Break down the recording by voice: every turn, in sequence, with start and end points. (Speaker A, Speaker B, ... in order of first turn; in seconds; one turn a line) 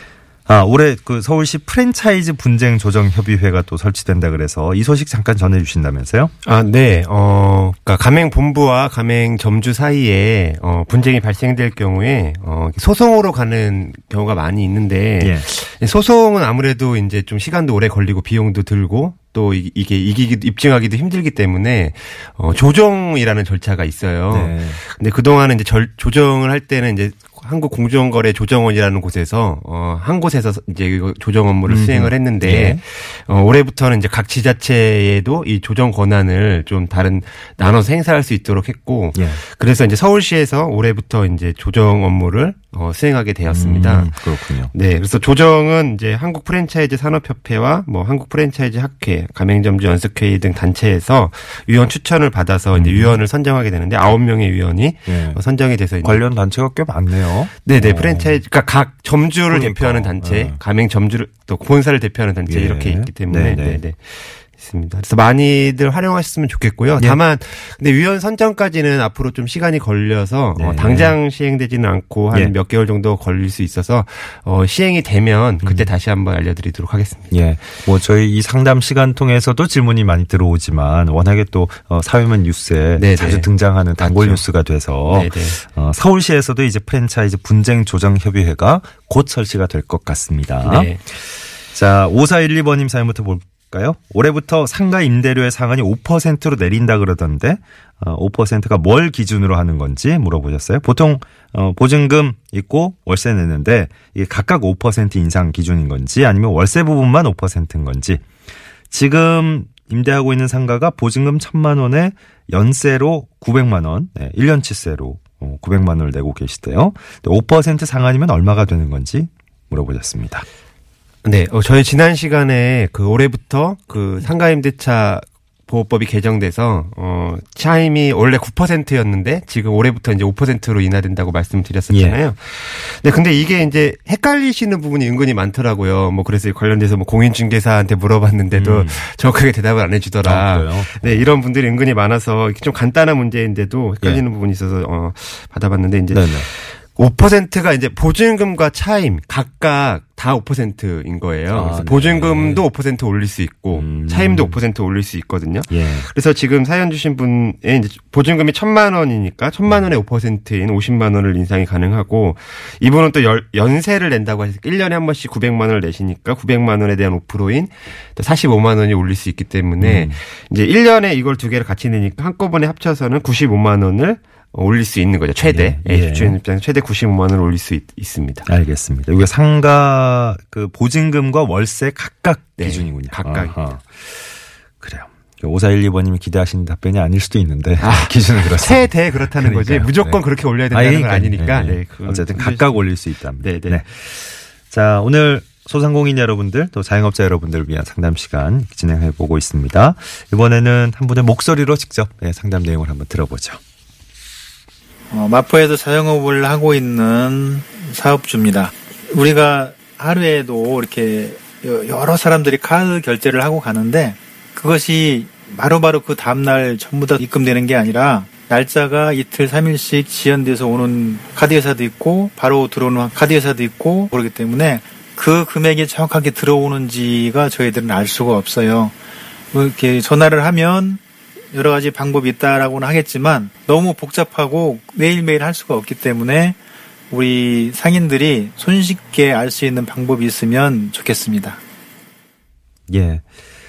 Speaker A: 0.5-6.3
Speaker B: 6.4-56.2
Speaker A: 15.2-15.5
Speaker A: 24.3-24.8
Speaker A: 31.6-32.8
Speaker A: 39.1-39.4
Speaker A: 43.5-44.7
Speaker A: 52.7-53.2
Speaker A: 55.1-55.4
Speaker A: 56.0-58.4
Speaker B: 57.6-77.3
Speaker A: 59.5-60.6
Speaker A: 62.5-63.8
Speaker A: 70.5-71.2
Speaker A: 75.6-75.9
Speaker A: 77.3-108.2
Speaker B: 83.0-84.4
Speaker B: 85.1-85.6
Speaker B: 90.6-91.0
Speaker A: 108.9-120.4
Speaker B: 121.2-178.5
Speaker A: 131.9-132.2
Speaker A: 138.5-139.0
Speaker A: 140.2-141.3
Speaker A: 146.1-146.5
Speaker A: 151.5-152.7
Speaker A: 153.7-154.6
Speaker A: 155.7-156.1
Speaker A: 169.8-170.2
Speaker A: 175.4-176.4
Speaker A: 178.4-184.3
Speaker B: 182.6-183.6
Speaker A: 184.8-190.2
Speaker B: 187.8-192.9
Speaker A: 190.7-203.6
Speaker B: 193.4-193.8
Speaker C: 205.1-228.9
Speaker C: 229.5-231.0
Speaker C: 231.5-236.6
Speaker C: 237.1-241.6
Speaker A: 242.9-243.2